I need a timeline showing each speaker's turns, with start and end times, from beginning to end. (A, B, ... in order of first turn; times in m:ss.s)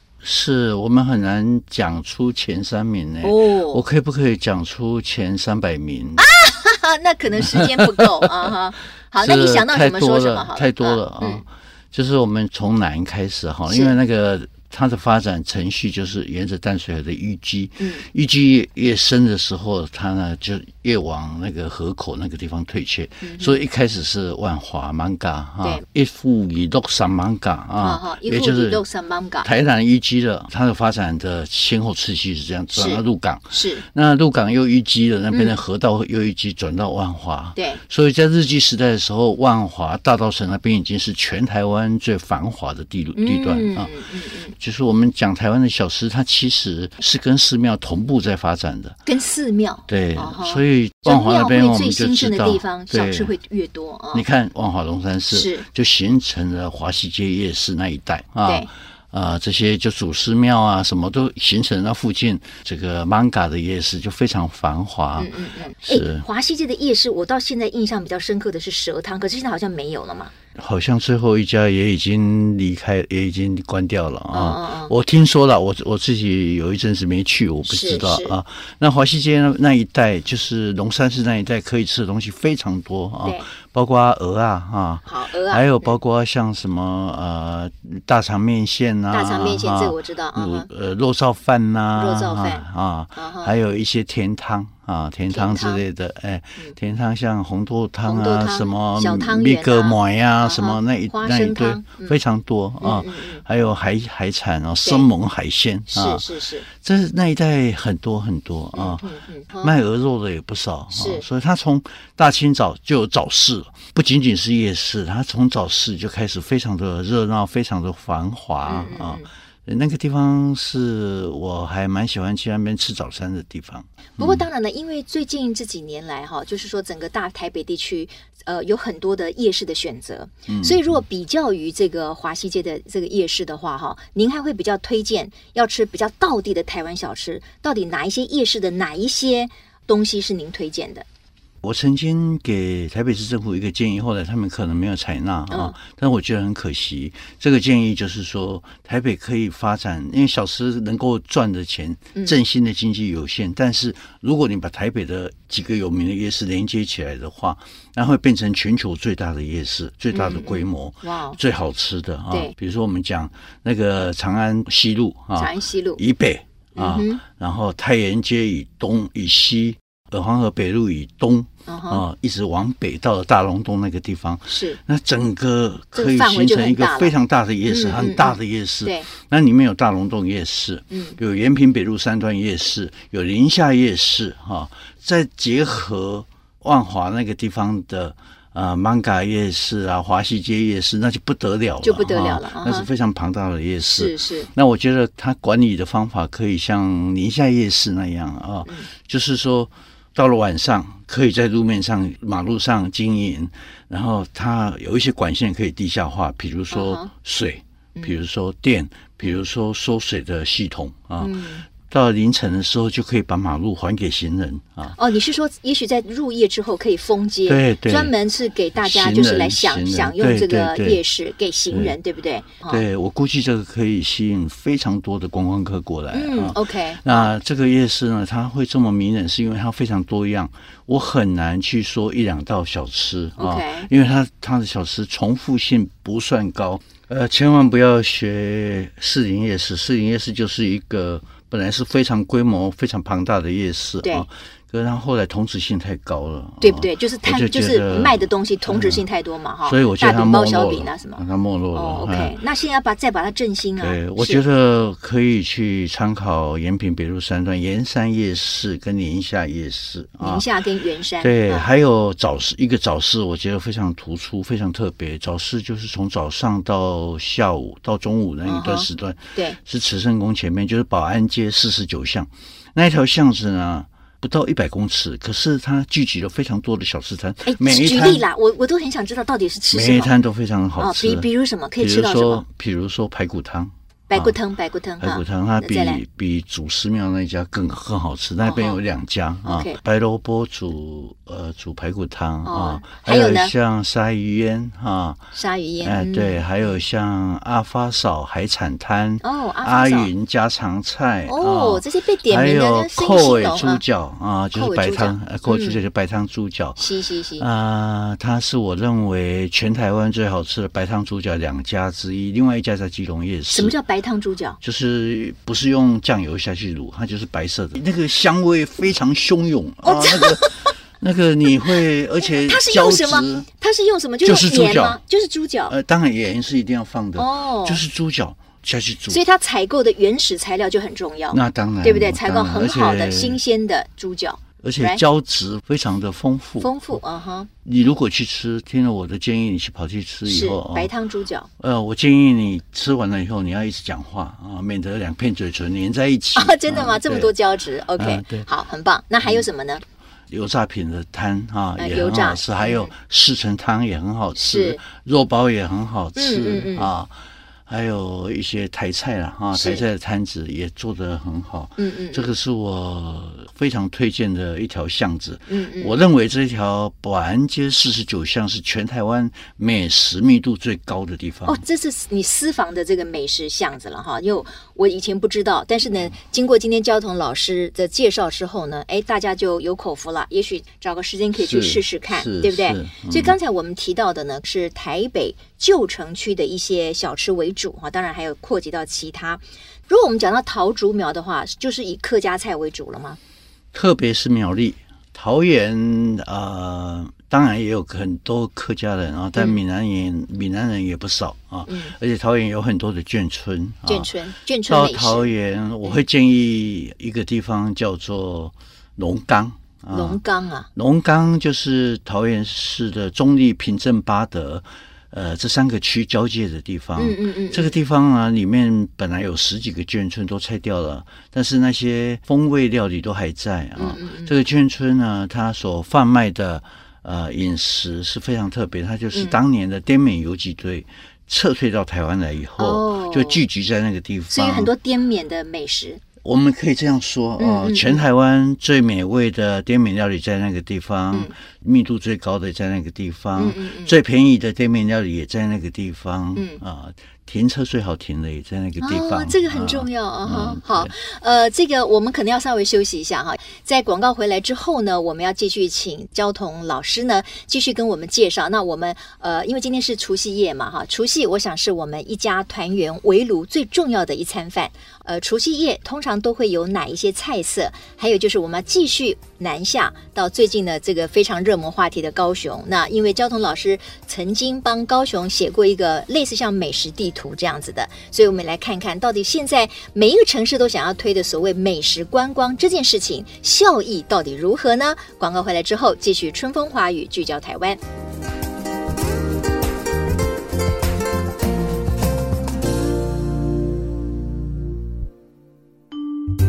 0:00.2-0:06.2 A
0:03.2-0:03.8 B
0:06.2-0:11.4 B
0:07.4-0:08.5 A
0:09.2-0:28.8 A
0:13.7-0:14.0 B
0:23.2-0:23.6 B
0:27.8-0:29.5 B
0:29.4-0:43.9 A
0:32.8-0:33.8 B
0:43.2-0:44.6 B
0:44.5-0:49.0 A
0:49.1-0:54.2 B
0:49.9-0:53.3 A
0:54.1-1:05.3 A
0:55.3-0:55.7 B
1:05.2-1:10.3 B
1:05.8-1:06.2 A
1:10.6-1:49.1 A
1:14.3-1:14.9 B
1:17.7-1:18.4 B
1:25.1-1:26.0 B
1:29.1-1:30.7 B
1:32.0-1:32.6 B
1:33.2-1:33.6 B
1:35.3-1:35.8 B
1:38.0-1:42.2 B
1:42.8-1:43.4 B
1:45.9-1:46.7 B
1:48.7-1:49.7 B
1:49.6-2:04.4 A
1:50.9-1:51.2 B
1:58.7-1:59.3 B
2:04.2-2:21.0 B
2:10.5-2:11.0 A
2:21.6-3:35.0 A
2:25.5-2:25.8 B
2:40.1-2:41.4 B
2:45.4-2:46.0 B
2:46.8-2:47.2 B
2:51.7-2:52.0 B
2:54.5-2:54.8 B
2:56.0-2:57.2 B
2:57.7-2:59.1 B
3:00.9-3:01.2 B
3:11.8-3:12.9 B
3:14.0-3:14.5 B
3:26.7-3:27.1 B
3:31.2-3:31.6 B
3:35.0-3:42.8 B
3:37.5-3:38.1 A
3:38.8-3:41.0 A
3:41.7-3:42.0 A
3:42.7-4:09.0 A
3:46.1-3:47.3 B
3:53.4-3:53.9 B
4:06.6-4:11.2 B
4:09.6-4:12.4 A
4:11.7-4:14.4 B
4:13.8-4:20.4 A
4:20.2-4:21.7 B
4:21.2-4:38.3 A
4:28.4-4:29.6 B
4:37.5-4:40.1 B
4:39.7-4:44.4 A
4:40.8-4:42.4 B
4:44.1-4:46.0 B
4:45.0-4:55.3 A
4:48.4-4:48.8 B
4:49.4-4:49.8 B
4:52.4-4:53.5 B
4:55.3-4:56.7 B
4:55.8-5:06.8 A
4:59.2-5:00.1 B
5:01.3-5:03.8 B
5:04.5-5:05.8 B
5:06.8-5:07.5 B
5:07.4-5:13.8 A
5:13.5-5:14.6 B
5:14.6-5:23.5 A
5:19.8-5:20.7 B
5:22.2-5:25.8 B
5:24.2-5:25.0 A
5:25.7-5:29.2 A
5:27.2-5:27.8 B
5:29.1-5:35.0 B
5:31.3-5:33.4 A
5:34.6-5:37.0 A
5:36.6-5:37.5 B
5:37.6-5:40.9 A
5:40.3-5:41.5 B
5:41.6-5:47.4 A
5:46.4-5:49.8 B
5:48.0-5:48.5 A
5:50.3-5:57.2 A
5:51.8-5:52.9 B
5:54.4-5:54.8 B
5:56.2-5:56.9 B
5:57.7-6:11.6 A
5:59.5-5:59.8 B
6:01.8-6:02.3 B
6:05.5-6:06.0 B
6:11.4-6:33.2 B
6:21.4-6:23.4 A
6:33.7-6:44.1 A
6:41.7-6:42.0 B
6:43.9-6:45.3 B
6:44.7-6:50.2 A
6:49.9-6:50.7 B
6:50.8-7:14.7 A
6:57.0-6:57.8 B
7:03.8-7:04.4 B
7:09.1-7:09.4 B
7:12.6-7:13.4 B
7:14.3-7:16.0 B
7:16.2-7:30.9 A
7:17.4-7:18.0 B
7:23.4-7:24.0 B
7:26.4-7:26.6 B
7:28.8-8:07.8 B